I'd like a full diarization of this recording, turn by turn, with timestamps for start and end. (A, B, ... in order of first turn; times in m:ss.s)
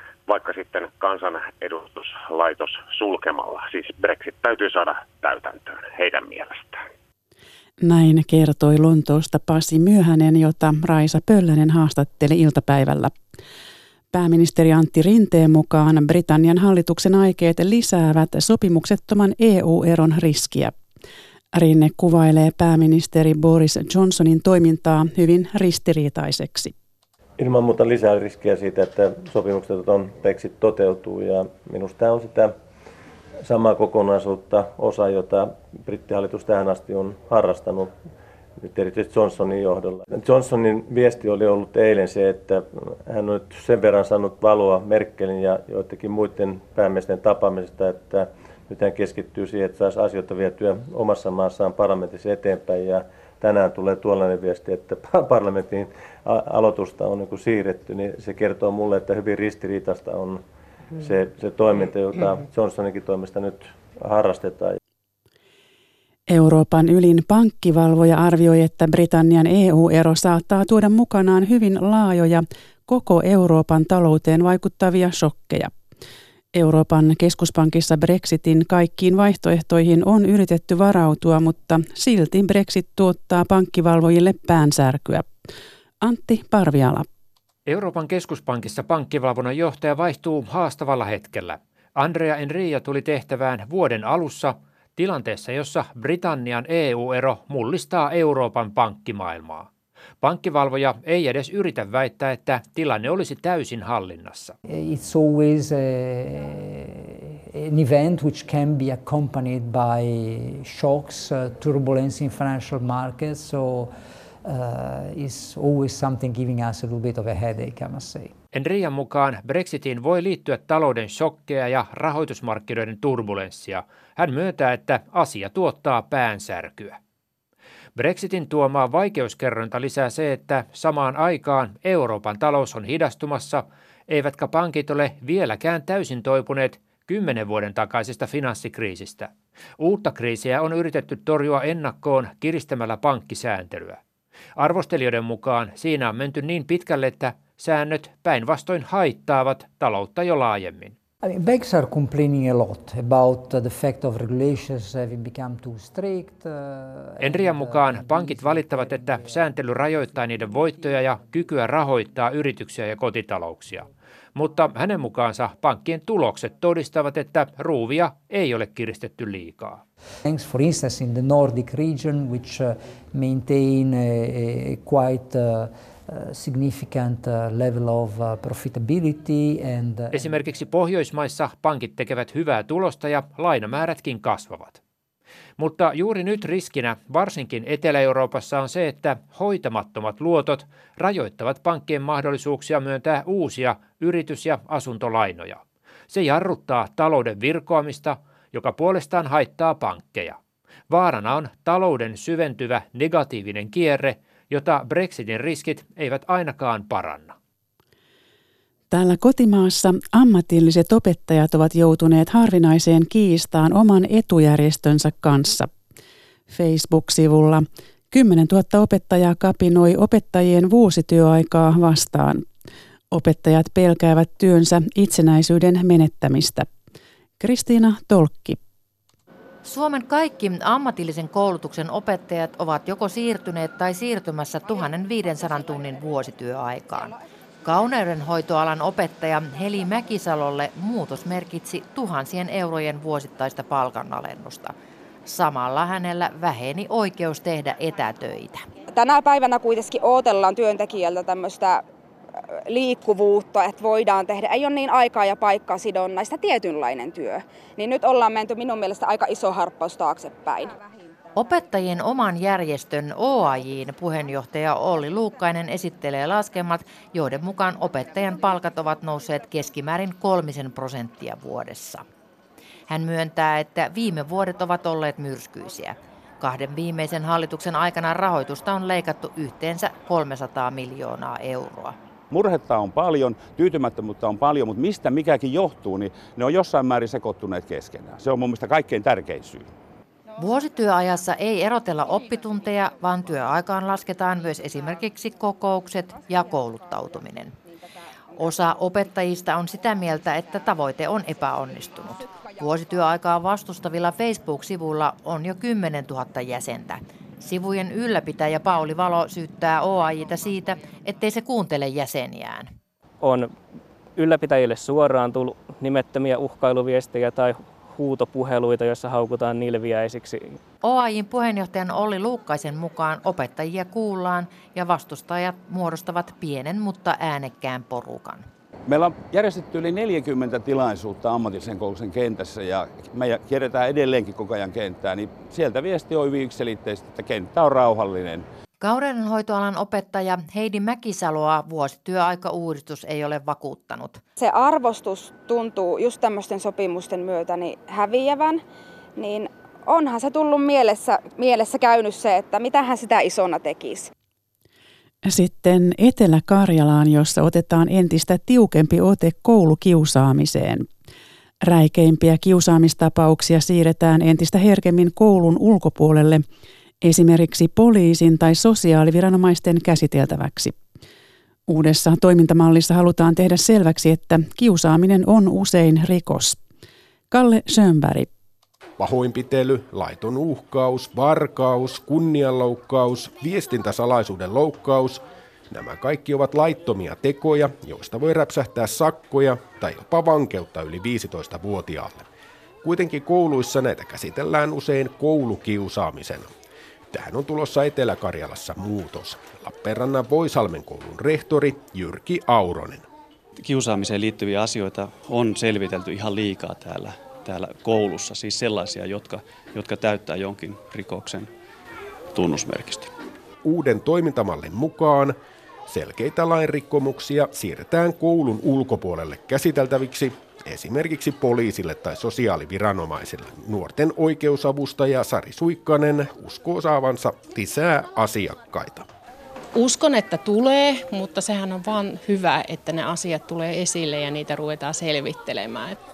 0:00.3-0:06.8 A
0:07.8-0:13.1 B
0:14.1-0:20.8 B
0:21.5-0:26.7 B
0:27.4-0:32.5 C
0:33.4-0:37.9 C
0:38.6-1:00.4 C
1:01.0-1:04.8 C
1:06.3-1:15.7 B
1:16.5-1:25.3 B
1:26.0-1:27.1 B
1:27.6-1:39.7 D
1:40.2-1:44.5 D
1:44.6-1:58.3 E
1:58.5-2:07.0 D
2:08.0-2:24.0 D
2:24.6-2:30.9 D
2:31.2-2:39.6 E
2:37.2-2:49.8 D
2:50.2-3:00.4 E
3:00.1-3:04.8 D
3:05.6-3:20.4 D
3:20.9-3:27.4 D
3:28.9-3:35.7 B
3:36.5-3:42.4 B
3:43.1-3:46.7 B
3:47.4-3:48.6 B
3:49.6-4:04.7 F
4:05.2-4:08.6 F
4:08.9-4:11.8 G
4:12.7-4:20.8 G
4:21.3-4:32.0 F
4:32.9-4:41.9 F
4:42.3-4:49.7 H
4:50.4-4:57.6 F
4:58.4-5:12.7 F
5:13.2-5:13.5 I
5:14.2-5:20.5 I
5:20.8-5:28.4 F
5:28.9-5:38.4 H
5:38.8-5:44.2 F
5:44.4-5:48.6 G
5:49.2-5:54.1 G
5:55.3-6:00.9 B
6:01.6-6:06.4 B
6:07.0-6:10.8 B
6:11.7-6:16.6 B
6:17.3-6:18.3 B
6:19.0-6:32.3 J
6:32.8-6:36.5 J
6:37.1-6:43.1 J
6:43.6-6:51.5 K
6:52.3-6:53.1 K
6:53.6-6:55.4 J
6:55.9-7:09.1 J
7:09.7-7:16.0 L